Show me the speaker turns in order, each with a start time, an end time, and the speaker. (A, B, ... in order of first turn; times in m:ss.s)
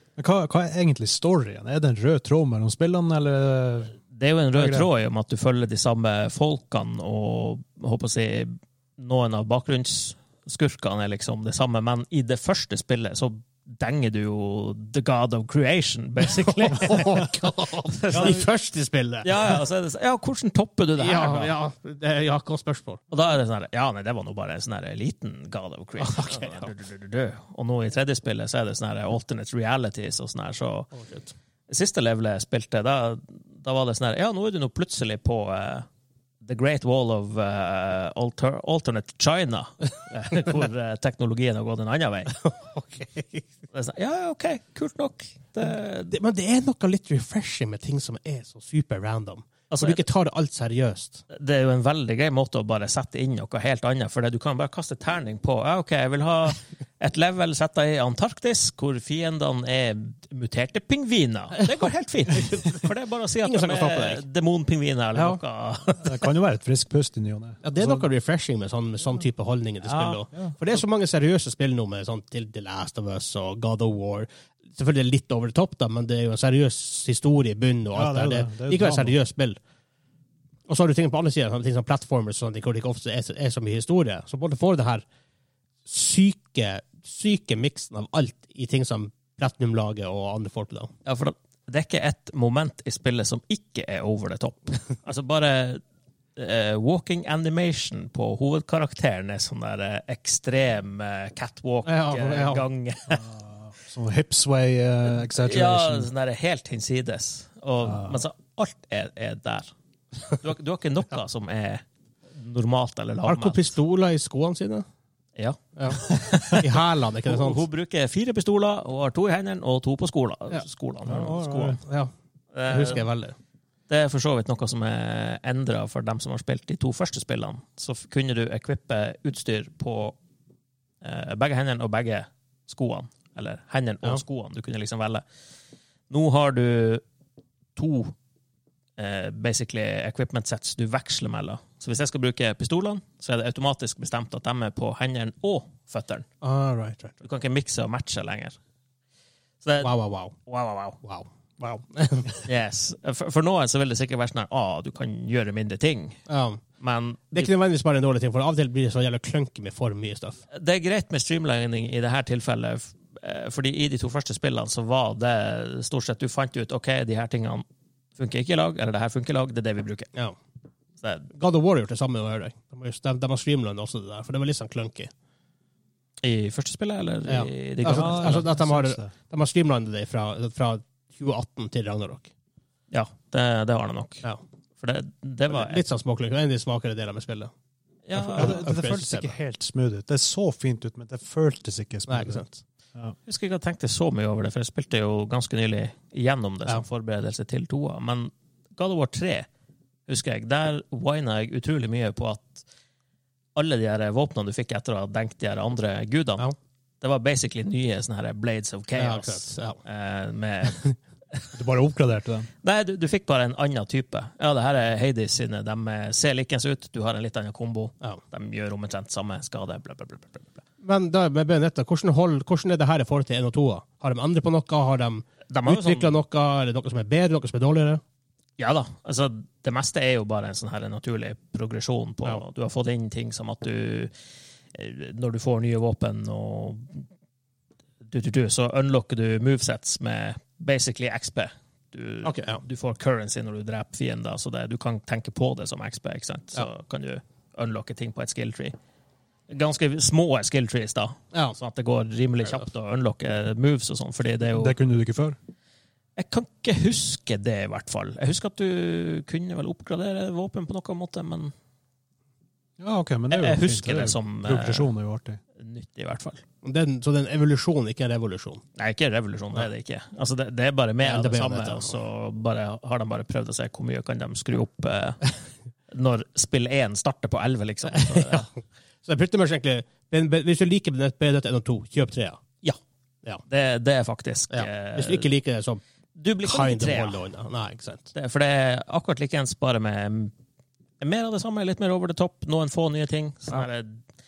0:00.2-0:04.0 A
0:04.1-0:18.5 B
0:04.5-0:04.9 A
0:16.3-0:19.6 C
0:18.1-0:18.4 A
0:19.2-0:21.6 B
0:21.0-0:23.0 C
0:23.1-0:30.9 B
0:26.0-0:26.7 C
0:30.9-0:31.3 C
0:31.7-0:35.9 B
0:36.4-0:42.4 B
0:42.4-0:43.4 C
0:43.7-0:46.1 B
0:46.1-0:51.2 C
0:49.7-0:50.0 B
0:51.3-1:06.1 B
1:02.3-1:02.8 C
1:03.4-1:04.2 C
1:05.1-1:05.4 C
1:06.0-1:08.1 A
1:07.6-1:19.6 C
1:09.8-1:10.2 B
1:17.9-1:19.2 A
1:20.7-1:25.1 C
1:25.8-1:30.9 C
1:31.0-1:35.8 B
1:36.4-1:43.2 B
1:41.8-1:42.7 C
1:43.1-1:46.1 A
1:45.1-1:49.7 B
1:47.8-1:48.2 A
1:50.3-1:51.8 B
1:52.3-1:53.8 B
1:53.2-1:54.8 C
1:55.4-1:56.6 B
1:55.8-1:57.6 C
1:57.3-2:01.8 B
2:01.0-2:01.8 A
2:01.8-2:02.1 C
2:02.5-2:03.0 B
2:02.7-2:03.4 C
2:03.9-2:10.2 B
2:11.0-2:15.2 B
2:16.1-2:17.0 B
2:17.8-2:18.1 B
2:19.0-2:26.2 B
2:26.4-2:27.2 C
2:27.2-2:28.6 B
2:29.6-2:31.0 B
2:29.8-2:30.3 C
2:31.0-2:32.4 C
2:32.4-2:36.2 B
2:36.3-2:36.6 C
2:36.8-2:37.5 B
2:37.3-2:40.4 C
2:40.5-2:47.6 B
2:48.2-2:50.1 B
2:51.0-2:51.3 B
2:51.3-2:55.1 C
2:56.2-2:58.5 B
2:57.3-3:02.3 C
2:57.8-2:59.1 A
3:02.9-3:04.2 B
3:04.8-3:05.8 B
3:05.5-3:07.5 C
3:08.1-3:08.6 B
3:08.2-3:09.4 C
3:08.4-3:12.4 A
3:12.1-3:12.6 C
3:13.3-3:19.5 B
3:20.1-3:22.6 B
3:23.6-3:26.5 B
3:27.0-3:30.9 B
3:29.0-3:29.8 C
3:31.5-3:32.5 A
3:32.6-3:40.6 B
3:40.8-3:48.0 C
3:45.5-3:46.1 B
3:48.6-3:54.1 B
3:54.7-3:57.1 B
3:58.1-4:08.7 B
4:02.2-4:02.6 C
4:09.5-4:14.8 B
4:14.5-4:15.4 A
4:16.2-4:21.5 B
4:22.8-4:25.4 A
4:23.3-4:24.9 B
4:25.6-4:26.4 B
4:26.6-4:28.6 C
4:28.8-4:35.3 B
4:31.0-4:32.0 C
4:35.9-4:38.5 B
4:37.9-4:42.4 C
4:43.5-4:45.3 B
4:44.5-4:45.8 C
4:46.2-4:47.2 B
4:46.4-4:48.1 C
4:48.1-4:50.3 B
4:51.0-4:54.0 B